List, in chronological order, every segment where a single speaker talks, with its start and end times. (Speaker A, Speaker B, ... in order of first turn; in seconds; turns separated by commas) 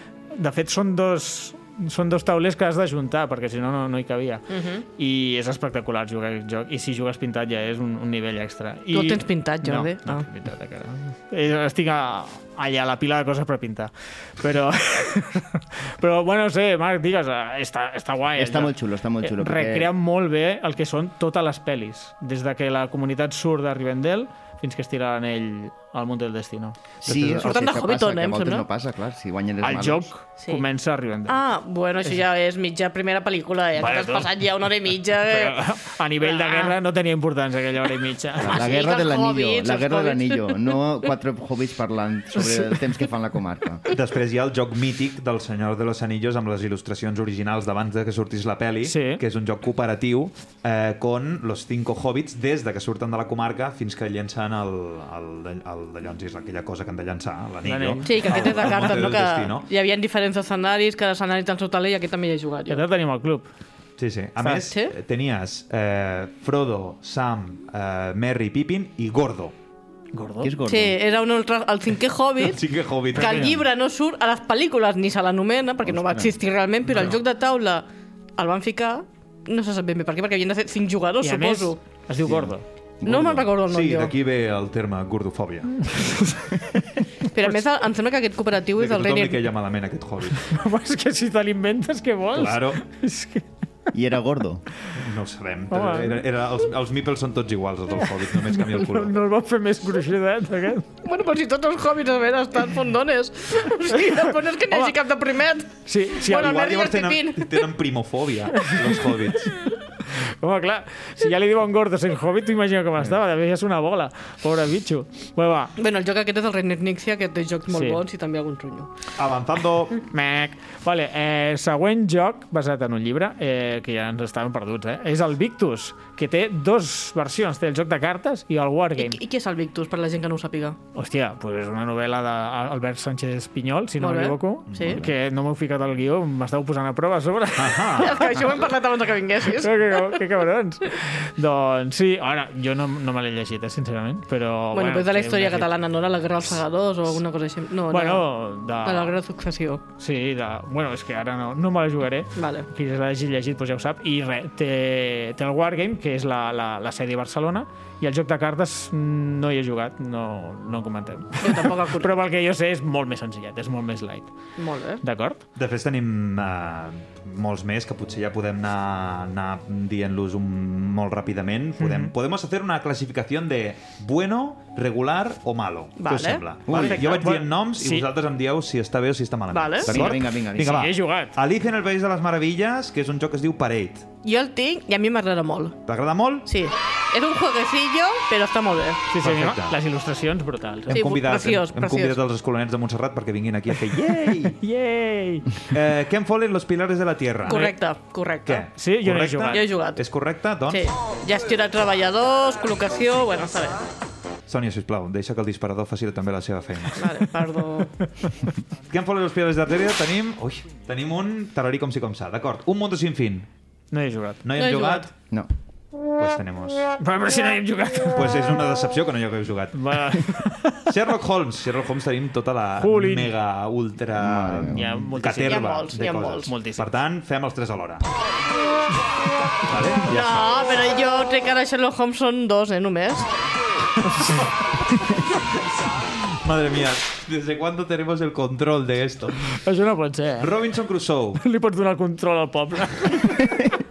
Speaker A: 0.3-26.8, Speaker B: 4.5-4.8, Speaker B: 8.9-10.2, Speaker C: 18.4-19.9, Speaker D: 27.0-27.7, Speaker C: 27.0-30.1, Speaker B: 27.4-28.6, Speaker A: 29.6-31.4, Speaker B: 31.3-35.7, Speaker A: 33.8-34.3, Speaker A: 35.3-38.7, Speaker B: 36.2-36.7, Speaker C: 38.4-43.9, Speaker B: 38.4-40.8, Speaker A: 42.4-42.8, Speaker D: 43.9-59.7, Speaker A: 48.8-49.2, Speaker A: 57.6-58.7, Speaker B: 58.0-62.8, Speaker A: 62.7-63.5, Speaker D: 64.0-69.5, Speaker B: 64.7-64.9, Speaker A: 70.1-70.5, Speaker C: 70.4-71.0, Speaker B: 70.7-77.8, Speaker D: 72.4-73.6, Speaker A: 73.2-73.6, Speaker C: 75.8-76.3, Speaker B: 78.4-81.8, Speaker A: 81.2-82.6, Speaker C: 82.2-83.5, Speaker B: 83.0-84.1, Speaker D: 83.7-86.0, Speaker A: 85.8-86.6, Speaker B: 87.3-89.5, Speaker D: 88.8-90.5, Speaker A: 90.4-93.5, Speaker D: 92.3-92.8, Speaker C: 93.9-94.6, Speaker D: 94.9-99.1, Speaker A: 95.7-96.2, Speaker A: 98.5-100.9, Speaker B: 101.0-107.7, Speaker A: 104.7-104.9, Speaker A: 105.8-106.6, Speaker D: 106.3-109.5, Speaker A: 108.5-115.7, Speaker B: 115.8-118.9, Speaker A: 117.7-118.0, Speaker D: 119.2-120.0, Speaker A: 120.1-129.2, Speaker B: 129.0-130.8, Speaker A: 130.9-138.3, Speaker B: 134.0-135.0, Speaker D: 134.7-135.1, Speaker D: 137.6-138.5, Speaker B: 137.9-140.2, Speaker A: 139.6-145.7, Speaker B: 144.7-148.2, Speaker A: 147.9-149.2, Speaker B: 148.8-149.8, Speaker A: 150.0-164.3, Speaker B: 152.3-152.7, Speaker B: 161.4-162.1, Speaker B: 164.6-165.0, Speaker A: 165.0-165.4, Speaker D: 165.5-184.1, Speaker A: 171.8-172.1, Speaker B: 176.0-176.4, Speaker C: 176.7-177.2, Speaker A: 176.7-178.1, Speaker B: 179.5-180.0, Speaker C: 179.8-180.9, Speaker A: 180.5-181.3, Speaker B: 184.2-185.8, Speaker D: 185.8-186.5, Speaker B: 186.4-189.0, Speaker A: 189.1-191.0, Speaker D: 189.2-189.8, Speaker B: 190.9-192.2, Speaker D: 190.9-194.6, Speaker A: 194.4-195.6, Speaker D: 195.7-197.8, Speaker B: 197.4-198.7, Speaker D: 198.4-200.8, Speaker A: 198.8-199.6, Speaker B: 199.5-200.0, Speaker B: 200.7-203.8, Speaker D: 204.5-207.0, Speaker B: 206.9-208.0, Speaker D: 208.9-213.5, Speaker A: 213.9-214.4, Speaker D: 214.4-215.1, Speaker B: 214.5-215.1, Speaker D: 216.1-217.0, Speaker A: 217.0-218.6, Speaker D: 218.1-220.2, Speaker A: 219.7-220.9, Speaker D: 220.9-228.0, Speaker A: 222.8-223.3, Speaker C: 224.2-225.0, Speaker A: 224.7-225.8, Speaker B: 225.4-226.5, Speaker A: 226.4-226.9, Speaker D: 229.7-230.4, Speaker B: 230.0-233.3, Speaker D: 236.4-239.5, Speaker A: 239.6-240.5, Speaker D: 240.4-241.4, Speaker A: 241.4-243.7